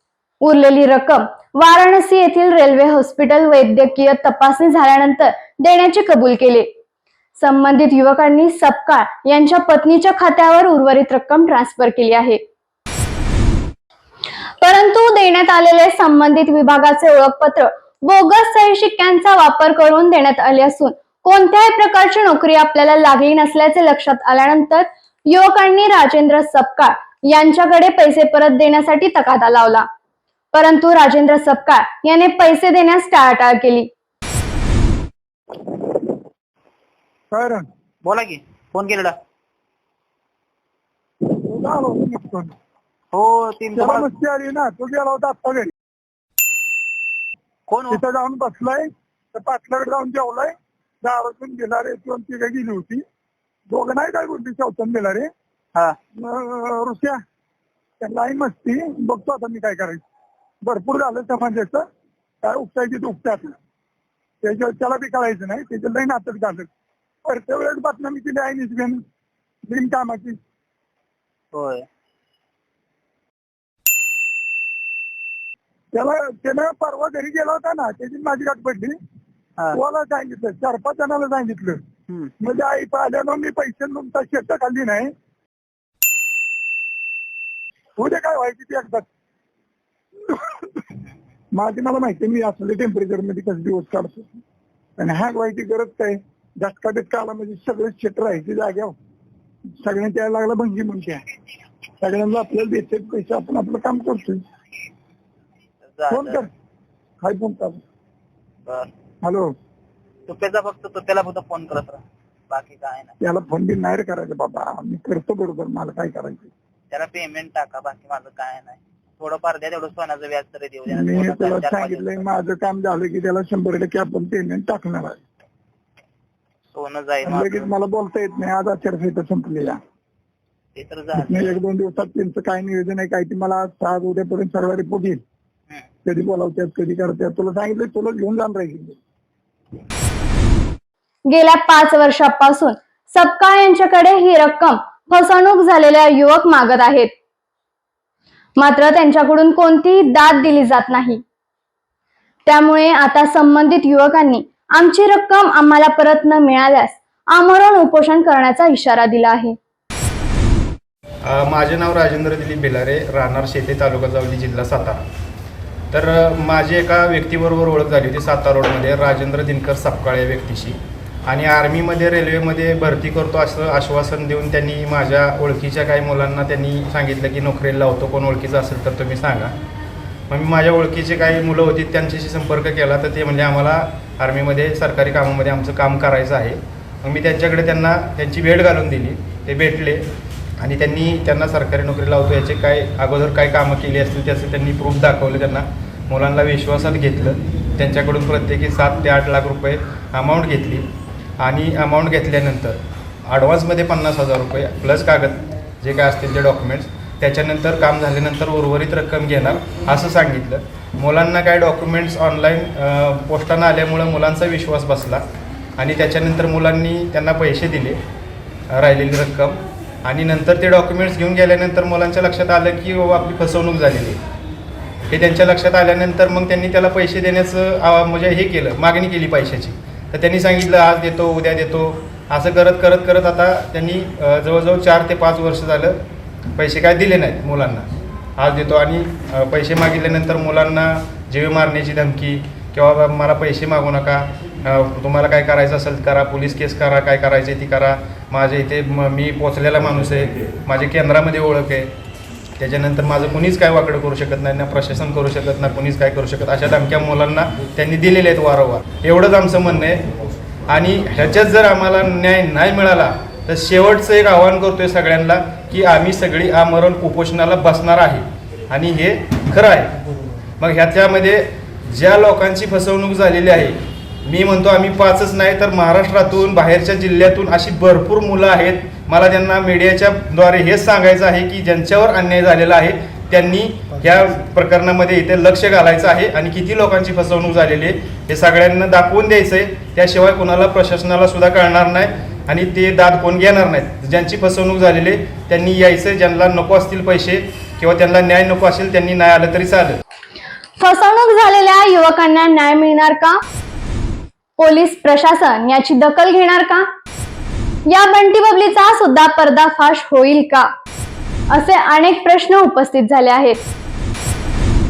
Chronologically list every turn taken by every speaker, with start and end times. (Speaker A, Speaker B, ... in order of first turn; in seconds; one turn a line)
Speaker A: 0.4-6.7
Speaker A: 7.4-12.4
Speaker A: 14.6-29.9
Speaker A: 30.5-33.9
Speaker B: 37.3-37.7
Speaker C: 38.0-39.1
Speaker B: 41.3-42.5
Speaker C: 43.1-44.1
Speaker B: 43.7-45.7
Speaker C: 47.7-48.0
Speaker B: 47.9-53.0
Speaker B: 53.7-55.3
Speaker B: 56.2-57.2
Speaker B: 58.0-60.0
Speaker B: 60.6-61.9
Speaker B: 62.4-63.5
Speaker B: 64.4-66.7
Speaker B: 67.2-69.0
Speaker B: 69.7-70.4
Speaker C: 71.5-71.8
Speaker B: 75.9-78.9
Speaker B: 79.7-81.8
Speaker B: 82.4-85.1
Speaker B: 88.0-89.1
Speaker B: 90.3-90.6
Speaker B: 91.5-94.3
Speaker B: 95.0-98.9
Speaker B: 99.8-101.2
Speaker B: 102.0-104.4
Speaker C: 105.9-106.4
Speaker B: 106.1-106.5
Speaker B: 107.2-107.8
Speaker B: 109.2-109.5
Speaker C: 110.3-113.1
Speaker B: 113.2-116.5
Speaker C: 116.9-122.2
Speaker B: 120.9-125.2
Speaker C: 126.7-127.7
Speaker B: 127.2-129.8
Speaker C: 130.8-131.6
Speaker B: 131.1-135.2
Speaker B: 136.1-139.0
Speaker A: 141.3-147.1
Speaker A: 148.6-151.2
Speaker A: 152.4-159.6
Speaker D: 161.2-165.0
Speaker D: 165.9-179.5
Speaker D: 180.3-190.0
Speaker D: 190.6-200.8
Speaker D: 201.4-215.2
Speaker D: 215.8-218.0
Speaker D: 218.7-224.2
Speaker D: 225.1-236.0
Speaker D: 236.6-251.9
Speaker D: 252.6-260.0
Speaker D: 260.7-269.9
Speaker D: 270.6-300.0
Speaker A: 300.8-303.4
Speaker A: 304.6-306.9
Speaker A: 307.9-310.7
Speaker A: 311.5-313.6